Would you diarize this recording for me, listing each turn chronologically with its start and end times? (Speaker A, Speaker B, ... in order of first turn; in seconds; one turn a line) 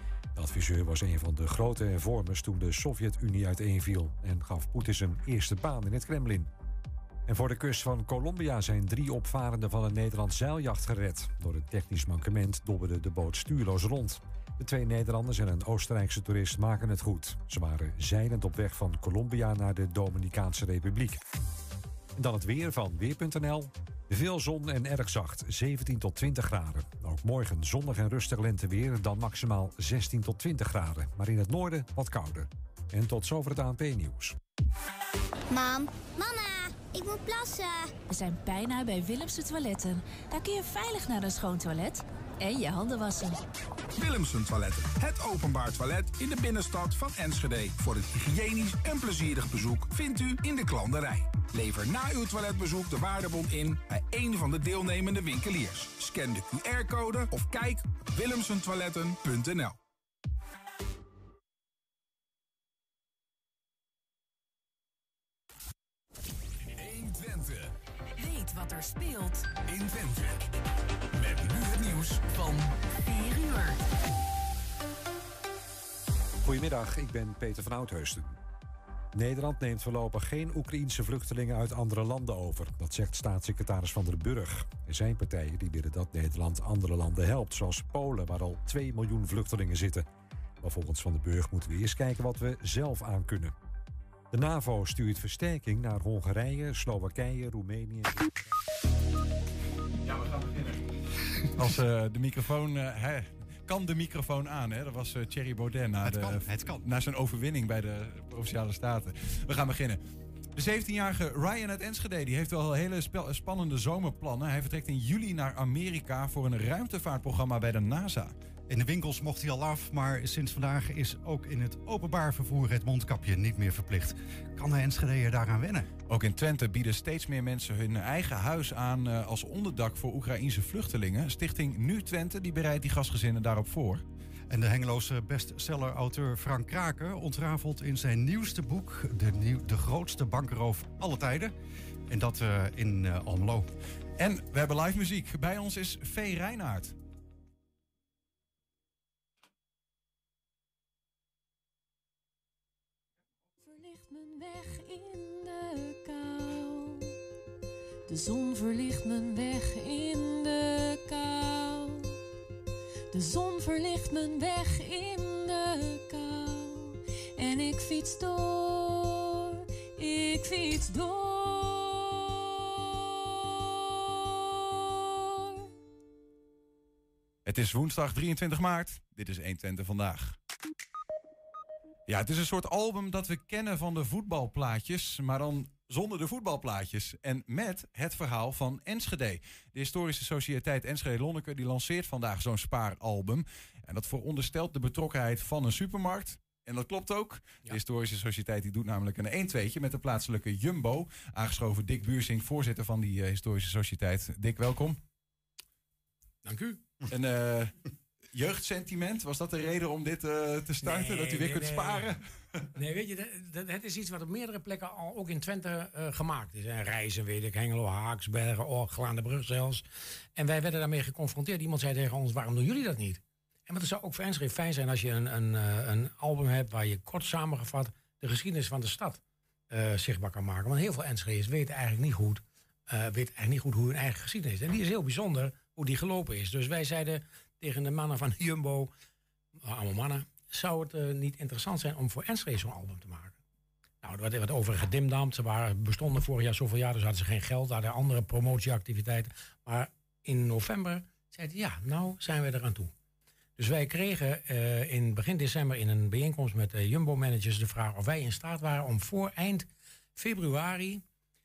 Speaker A: 0.3-6.5
Speaker A: 7.3-21.2
Speaker A: 22.2-34.4
Speaker B: 35.5-37.9
Speaker C: 38.1-43.4
Speaker D: 44.0-59.8
Speaker D: 66.7-67.7
Speaker E: 68.2-69.5
Speaker D: 69.6-70.5
Speaker D: 71.1-72.8
Speaker E: 72.9-73.8
Speaker A: 76.4-78.4
Speaker A: 79.1-90.1
Speaker A: 90.6-93.5
Speaker A: 94.3-98.4
Speaker F: 100.1-100.8
Speaker F: 101.5-110.0
Speaker G: 106.0-106.9
Speaker F: 110.6-118.3
Speaker G: 118.7-125.9
Speaker F: 126.1-134.1
Speaker G: 134.5-141.6
Speaker G: 142.1-143.7
Speaker F: 144.2-146.9
Speaker H: 153.6-157.2
Speaker H: 158.1-162.2
Speaker H: 163.1-175.7
Speaker F: 177.4-180.4
Speaker F: 182.1-205.0
Speaker I: 206.4-206.8
Speaker F: 207.1-207.8
Speaker F: 208.3-212.7
Speaker I: 210.8-212.1
Speaker I: 212.8-219.8
Speaker I: 220.4-238.9
Speaker I: 239.6-243.4
Speaker I: 244.0-252.9
Speaker I: 253.6-261.0